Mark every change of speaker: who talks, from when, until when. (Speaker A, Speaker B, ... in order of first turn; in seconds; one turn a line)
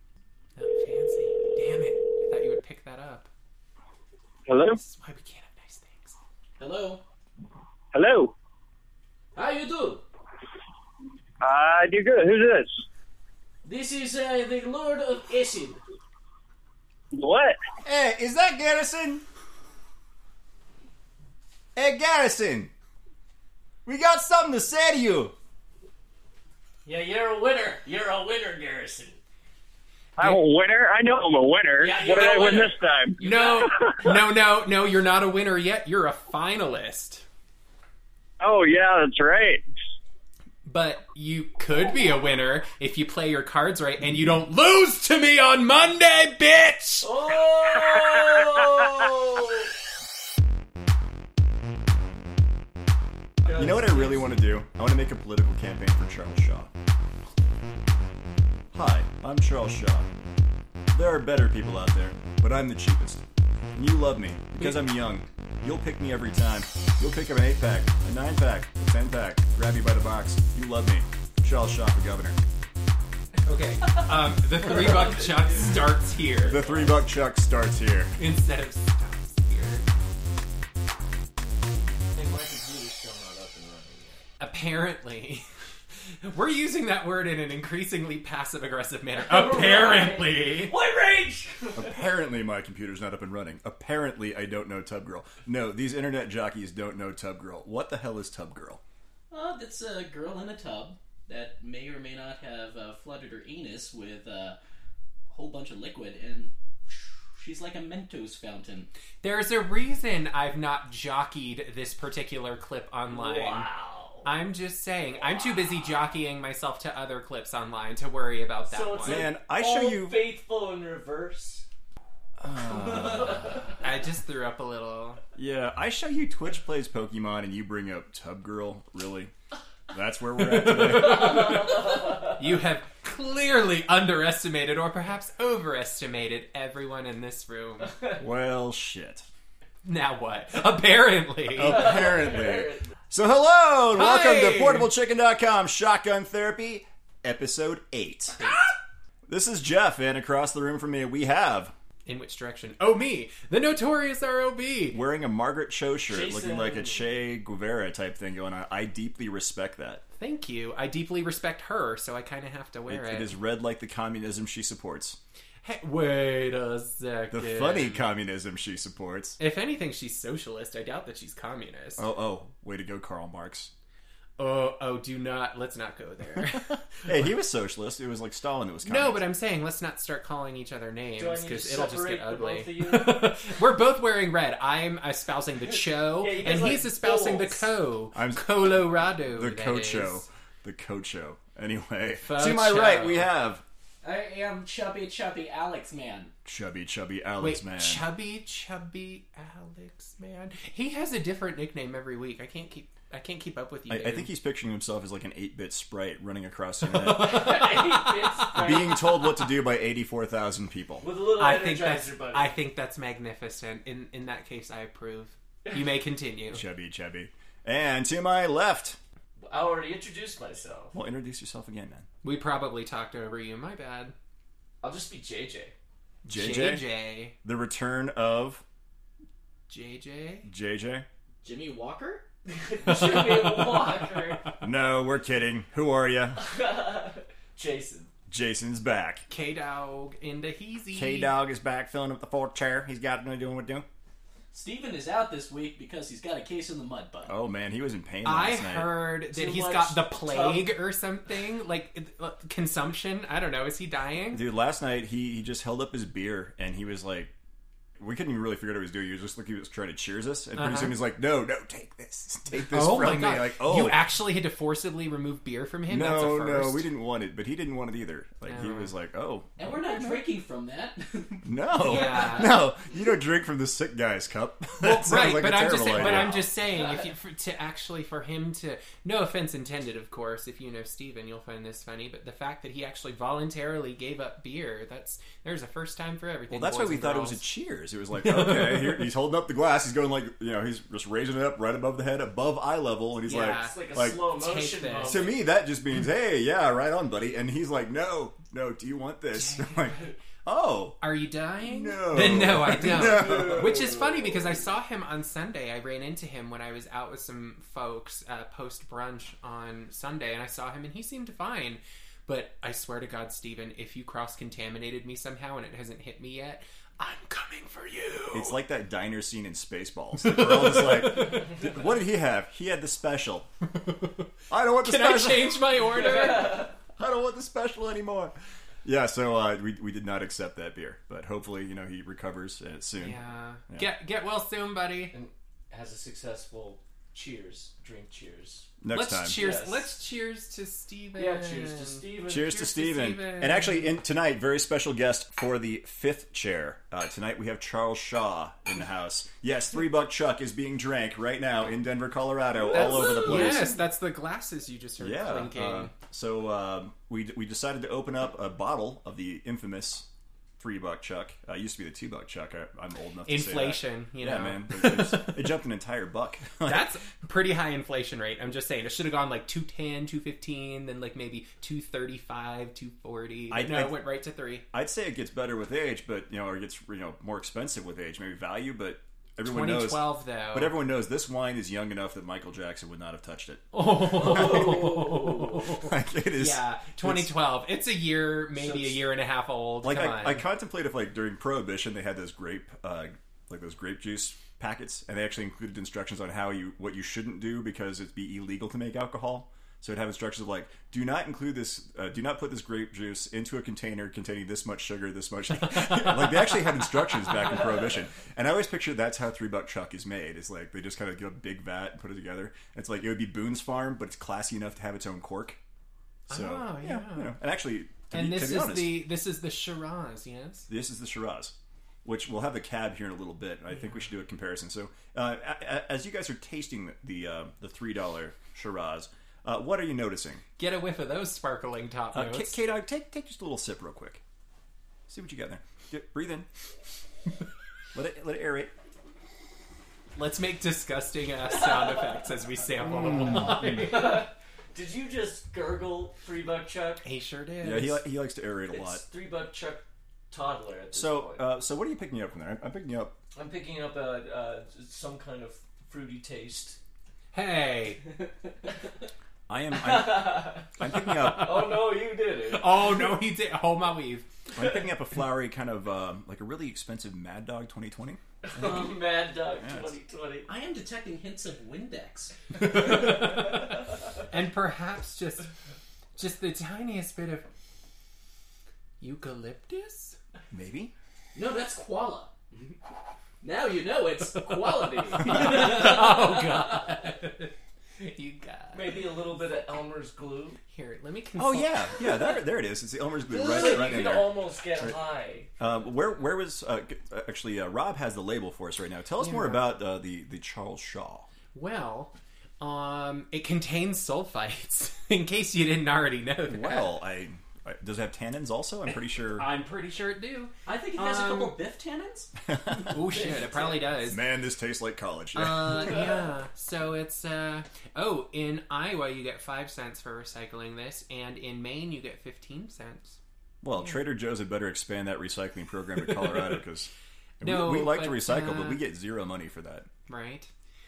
Speaker A: 0.6-3.3
Speaker B: 4.5-4.8
Speaker A: 4.8-6.2
Speaker C: 6.6-7.0
Speaker B: 7.9-8.3
Speaker D: 9.4-10.0
Speaker B: 11.4-12.8
Speaker D: 13.7-15.8
Speaker B: 17.1-17.6
Speaker E: 17.8-19.2
Speaker E: 21.8-22.7
Speaker E: 23.9-25.3
Speaker D: 26.9-29.2
Speaker B: 30.2-33.9
Speaker D: 31.8-32.7
Speaker C: 31.8-32.7
Speaker D: 33.2-33.5
Speaker A: 33.2-37.2
Speaker B: 38.4-39.6
Speaker A: 40.6-47.1
Speaker D: 47.0-49.7
Speaker B: 48.0-48.6
Speaker D: 53.5-54.3
Speaker E: 53.5-56.7
Speaker E: 58.7-60.1
Speaker E: 60.9-63.2
Speaker E: 63.8-72.4
Speaker A: 64.6-64.8
Speaker A: 73.4-76.6
Speaker D: 73.8-77.0
Speaker E: 76.5-78.2
Speaker A: 78.2-79.9
Speaker D: 82.1-84.2
Speaker A: 84.4-85.5
Speaker A: 86.2-90.7
Speaker D: 89.2-92.0
Speaker E: 91.8-98.8
Speaker C: 99.3-104.6
Speaker C: 105.3-108.9
Speaker A: 109.2-113.7
Speaker D: 113.1-114.3
Speaker A: 114.2-119.3
Speaker D: 118.7-121.7
Speaker E: 119.0-120.2
Speaker E: 122.4-123.6
Speaker D: 122.8-123.6
Speaker A: 123.8-125.2
Speaker E: 125.3-129.3
Speaker E: 129.9-131.8
Speaker A: 130.4-137.9
Speaker D: 131.1-132.2
Speaker E: 138.2-139.3
Speaker A: 139.8-141.9
Speaker E: 141.5-148.5
Speaker D: 141.6-142.9
Speaker A: 143.9-144.9
Speaker E: 149.3-151.7
Speaker A: 152.1-155.0
Speaker E: 154.9-160.0
Speaker D: 156.1-157.1
Speaker A: 160.2-163.3
Speaker E: 162.9-165.2
Speaker A: 165.6-168.1
Speaker E: 167.3-169.4
Speaker A: 169.4-172.1
Speaker E: 172.0-173.7
Speaker A: 174.4-177.1
Speaker E: 177.0-179.2
Speaker A: 178.9-190.2
Speaker D: 181.2-183.4
Speaker D: 185.7-187.7
Speaker E: 188.1-193.6
Speaker A: 192.2-193.3
Speaker C: 194.0-196.3
Speaker E: 196.4-198.1
Speaker A: 197.4-204.3
Speaker E: 203.9-207.6
Speaker A: 206.9-208.8
Speaker D: 207.1-209.1
Speaker E: 208.5-211.1
Speaker D: 211.0-212.5
Speaker A: 211.3-216.6
Speaker E: 216.5-219.0
Speaker D: 219.4-221.0
Speaker E: 220.9-222.1
Speaker A: 222.2-224.1
Speaker D: 224.8-225.7
Speaker E: 226.2-226.9
Speaker A: 226.3-227.3
Speaker E: 227.4-228.6
Speaker A: 229.7-230.5
Speaker E: 230.5-231.1
Speaker C: 231.4-232.3
Speaker D: 232.5-234.4
Speaker C: 232.8-234.2
Speaker E: 234.6-236.4
Speaker D: 236.4-238.1
Speaker E: 238.3-239.3
Speaker A: 239.3-241.3
Speaker E: 240.9-243.9
Speaker C: 244.5-247.4
Speaker E: 247.3-249.0
Speaker A: 248.2-254.4
Speaker D: 249.3-250.7
Speaker E: 254.3-257.3
Speaker E: 258.0-264.0
Speaker A: 260.6-261.0
Speaker A: 262.6-266.9
Speaker E: 265.9-270.1
Speaker A: 268.5-268.9
Speaker C: 269.6-272.4
Speaker E: 271.4-276.5
Speaker A: 271.8-272.6
Speaker A: 274.8-287.4
Speaker D: 276.8-277.1
Speaker E: 286.5-294.2
Speaker A: 288.2-289.1
Speaker A: 293.3-295.3
Speaker D: 293.4-295.4
Speaker E: 295.0-301.0
Speaker A: 299.3-300.1
Speaker A: 301.0-318.6
Speaker E: 301.6-303.9
Speaker D: 303.0-303.8
Speaker E: 318.3-323.5
Speaker A: 320.2-321.6
Speaker E: 324.5-325.7
Speaker A: 324.8-326.7
Speaker D: 326.0-326.7
Speaker E: 327.0-333.9
Speaker A: 333.0-335.1
Speaker D: 335.1-338.7
Speaker E: 338.8-339.4
Speaker A: 338.9-343.9
Speaker D: 339.3-339.9
Speaker D: 341.1-342.5
Speaker E: 342.3-353.8
Speaker A: 352.7-355.9
Speaker D: 352.8-353.6
Speaker E: 355.0-360.1
Speaker E: 360.6-366.9
Speaker A: 363.3-365.4
Speaker A: 366.6-374.6
Speaker E: 373.5-374.0
Speaker E: 374.7-384.8
Speaker A: 379.4-380.8
Speaker A: 383.7-390.4
Speaker D: 384.2-385.6
Speaker E: 385.8-387.3
Speaker D: 388.5-389.0
Speaker E: 389.8-415.6
Speaker A: 405.9-406.5
Speaker A: 416.3-417.4
Speaker E: 416.3-419.0
Speaker A: 418.1-420.7
Speaker E: 420.7-430.4
Speaker A: 430.6-432.6
Speaker E: 432.1-434.2
Speaker E: 435.1-436.5
Speaker E: 437.9-438.7
Speaker A: 440.2-444.3
Speaker D: 441.6-442.1
Speaker E: 442.9-443.9
Speaker D: 442.9-447.1
Speaker A: 447.0-448.0
Speaker E: 447.6-449.0
Speaker D: 448.7-451.5
Speaker E: 450.9-453.2
Speaker D: 453.3-456.8
Speaker A: 457.3-458.0
Speaker E: 459.5-461.8
Speaker D: 459.7-460.7
Speaker A: 460.8-461.8
Speaker D: 461.2-462.9
Speaker A: 462.5-464.3
Speaker E: 464.6-468.9
Speaker D: 468.4-470.5
Speaker E: 469.6-469.9
Speaker C: 470.5-473.3
Speaker A: 472.6-473.8
Speaker A: 474.3-475.5
Speaker A: 476.2-477.5
Speaker A: 479.0-480.2
Speaker E: 480.5-480.9
Speaker C: 481.4-482.8
Speaker C: 483.4-486.9
Speaker A: 484.4-489.0
Speaker D: 488.7-490.6
Speaker A: 490.7-492.3
Speaker E: 491.4-495.0
Speaker D: 493.3-495.5
Speaker E: 495.6-501.3
Speaker A: 499.2-499.7
Speaker A: 501.5-507.0
Speaker E: 506.5-509.5
Speaker A: 509.4-511.6
Speaker C: 510.6-512.3
Speaker E: 512.5-513.3
Speaker A: 512.9-514.2
Speaker D: 513.1-513.8
Speaker E: 514.0-516.0
Speaker A: 515.4-523.2
Speaker E: 523.6-529.9
Speaker A: 526.1-526.5
Speaker A: 527.4-528.8
Speaker A: 530.1-530.5